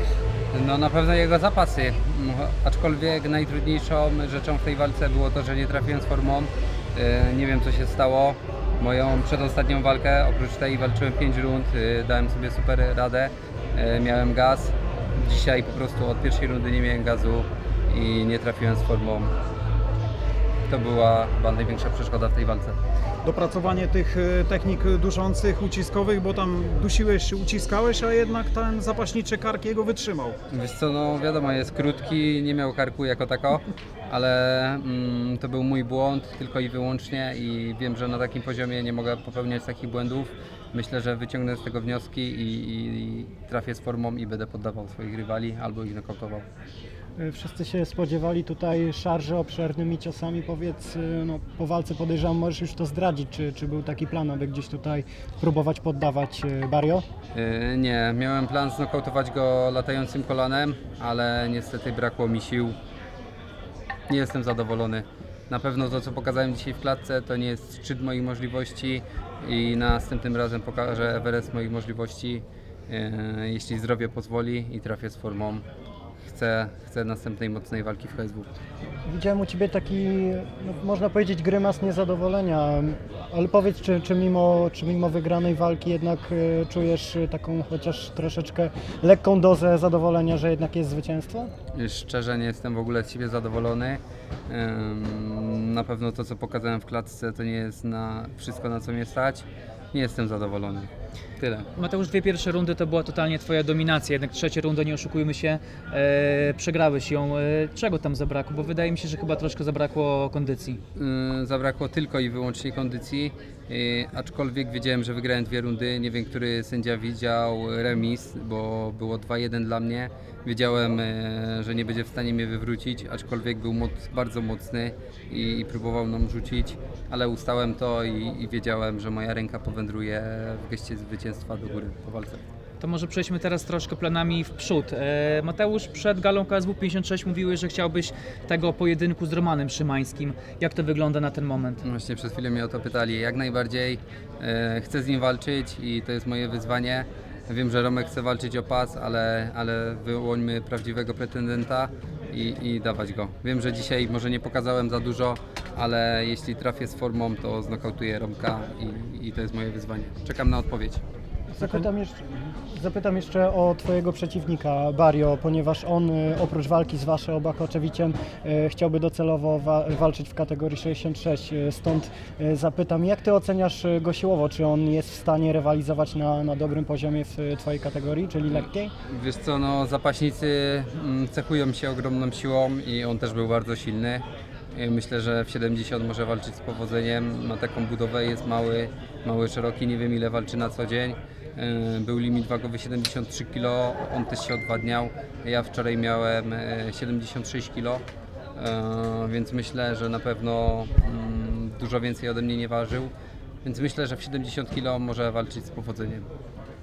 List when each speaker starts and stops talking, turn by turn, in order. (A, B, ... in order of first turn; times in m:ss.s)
0:00.5-0:19.3 A
0:20.7-0:22.8 A
0:23.2-0:30.4 B
0:30.5-0:46.4 A
0:47.2-0:57.0 C
0:57.3-1:02.8 A
1:04.1-1:15.6 A
1:16.2-1:18.5 A
1:19.0-1:31.5 C
1:31.7-1:41.7 A
1:41.8-1:50.8 D
1:50.9-2:12.4 A
2:12.8-2:21.8 D
2:21.8-2:41.0 A
2:41.5-2:58.9 C
2:59.1-3:18.0 A
3:18.5-3:23.1 A
3:23.6-3:26.3 A